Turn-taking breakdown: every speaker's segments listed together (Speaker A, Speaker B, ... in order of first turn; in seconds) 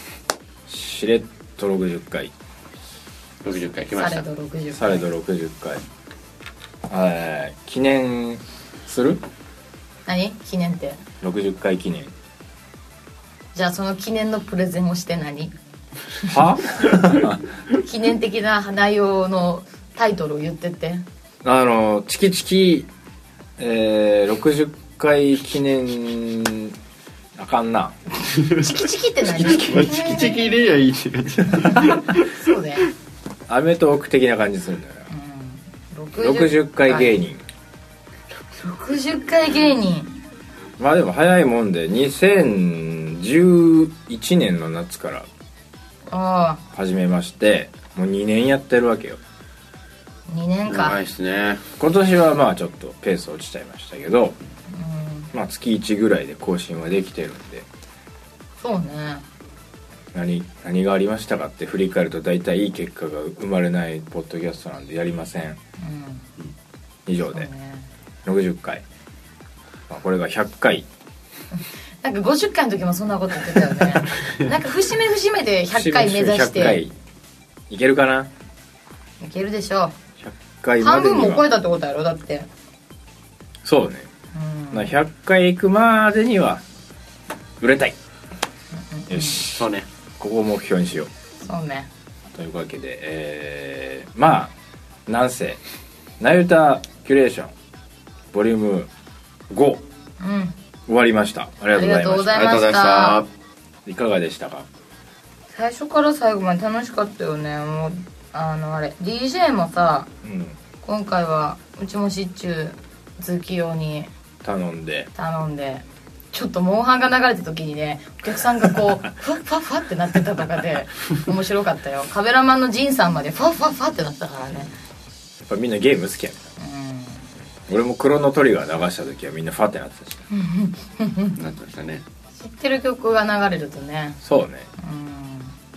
Speaker A: 0.7-2.3, 4.7-5.8, 6.9-9.2, 11.2-12.1, 16.2-17.4, 21.4-22.9, 23.6-26.8, 27.4-28.0, 29.4-29.9, 33.5-35.1, 36.2-37.4, 40.8-45.3, 46.7-49.2, 51.8-54.4, 55.3-57.7, 60.1-65.6, 67.0-67.5, 68.2-68.8, 69.9-70.9, 75.7-76.9, 77.7-78.3, 80.2-81.5, 83.6-84.1, 84.7-86.6, 87.6-88.0, 89.1-89.7, 90.2-91.1, 92.3-94.5, 95.1-95.6, 96.2-97.5, 98.3-98.9, 99.5-99.8, 100.9-102.6, 103.8-104.7, 110.2-110.5, 114.4-115.1, 125.4-126.5, 127.7-130.3, 134.2-134.7
Speaker B: 3.4-4.2, 28.3-28.6, 29.3-32.4, 50.7-51.7, 89.5-89.9, 102.3-103.3, 131.4-132.0
Speaker C: 3.9-5.1, 10.1-11.0, 13.5-15.5, 17.7-21.0, 28.4-30.4, 31.6-32.8, 35.1-37.2, 38.6-40.2, 46.1-46.6, 50.3-51.0, 54.7-55.3, 58.6-59.2, 65.8-66.2, 67.2-67.9, 71.6-76.8, 79.2-79.9, 80.8-82.5, 84.3-84.9, 88.9-89.4, 91.4-91.9, 100.2-100.5, 101.7-103.2, 105.5-110.1, 110.8-114.1, 115.1-124.7, 126.6-127.3, 130.3-131.4, 132.4-134.2, 134.8-135.5